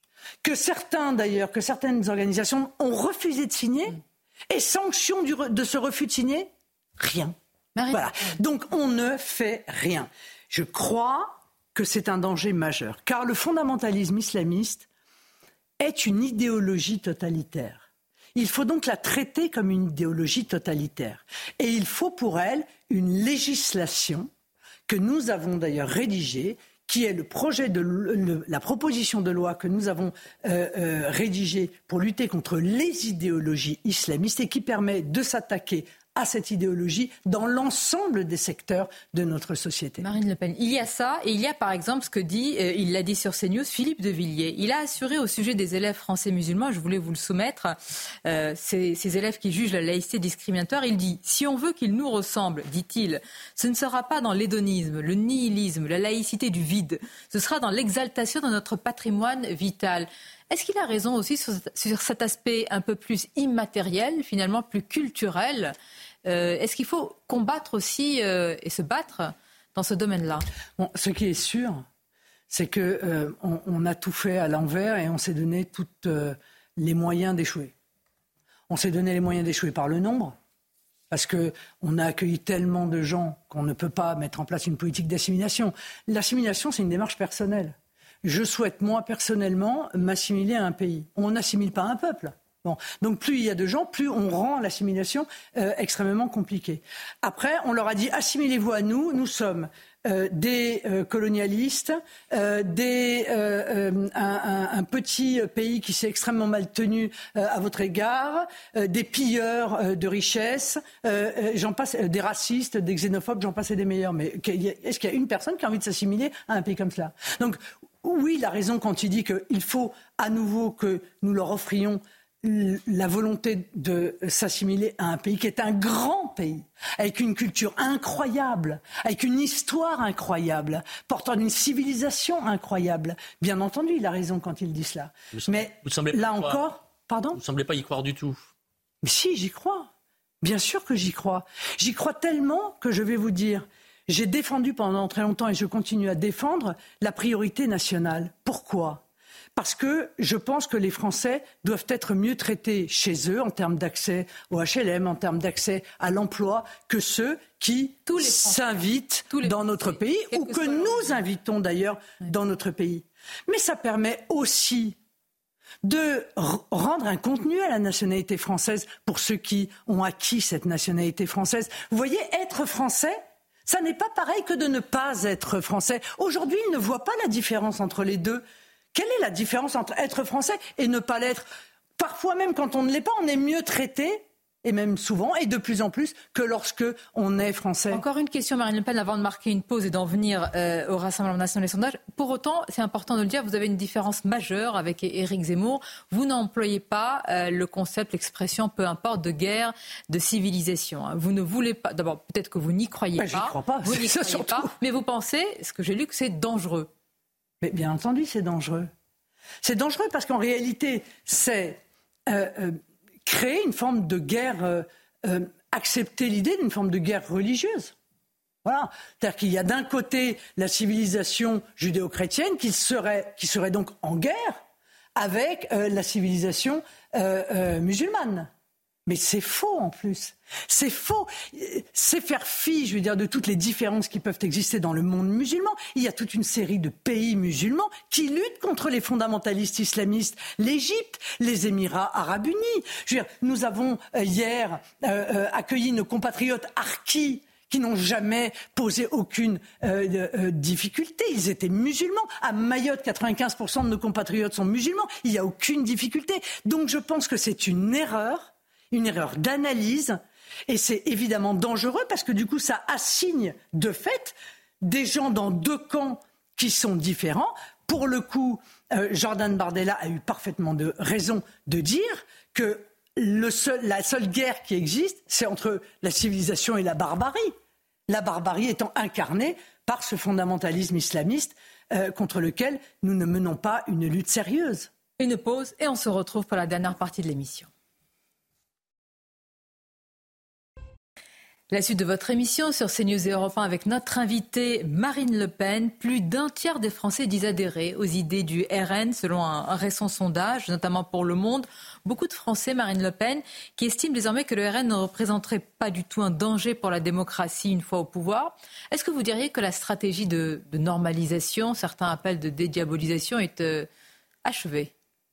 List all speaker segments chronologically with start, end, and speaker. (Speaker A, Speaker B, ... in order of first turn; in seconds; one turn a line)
Speaker A: 0.4-7.3
Speaker B: 7.8-8.1
Speaker A: 7.9-14.8
Speaker A: 15.8-24.3
Speaker A: 24.9-40.0
Speaker B: 40.0-65.7
Speaker B: 66.2-70.5
Speaker A: 70.8-71.8
Speaker A: 72.5-77.7
Speaker A: 78.7-80.3
Speaker A: 81.1-137.4
Speaker C: 135.3-136.6
Speaker C: 137.3-138.4
Speaker A: 139.0-139.9
Speaker A: 140.4-149.0
Speaker A: 149.6-165.0
Speaker B: 158.1-158.7
Speaker B: 160.3-161.2
Speaker A: 165.8-178.4
Speaker A: 178.9-181.4
Speaker A: 182.0-188.0
Speaker B: 187.9-206.9
Speaker A: 203.2-204.7
Speaker A: 207.6-208.9
Speaker A: 209.6-217.9
Speaker A: 218.6-224.6
Speaker A: 225.2-228.5
Speaker A: 229.1-277.5
Speaker A: 278.1-284.9
Speaker B: 285.2-287.7
Speaker B: 291.7-313.9
Speaker B: 314.4-314.9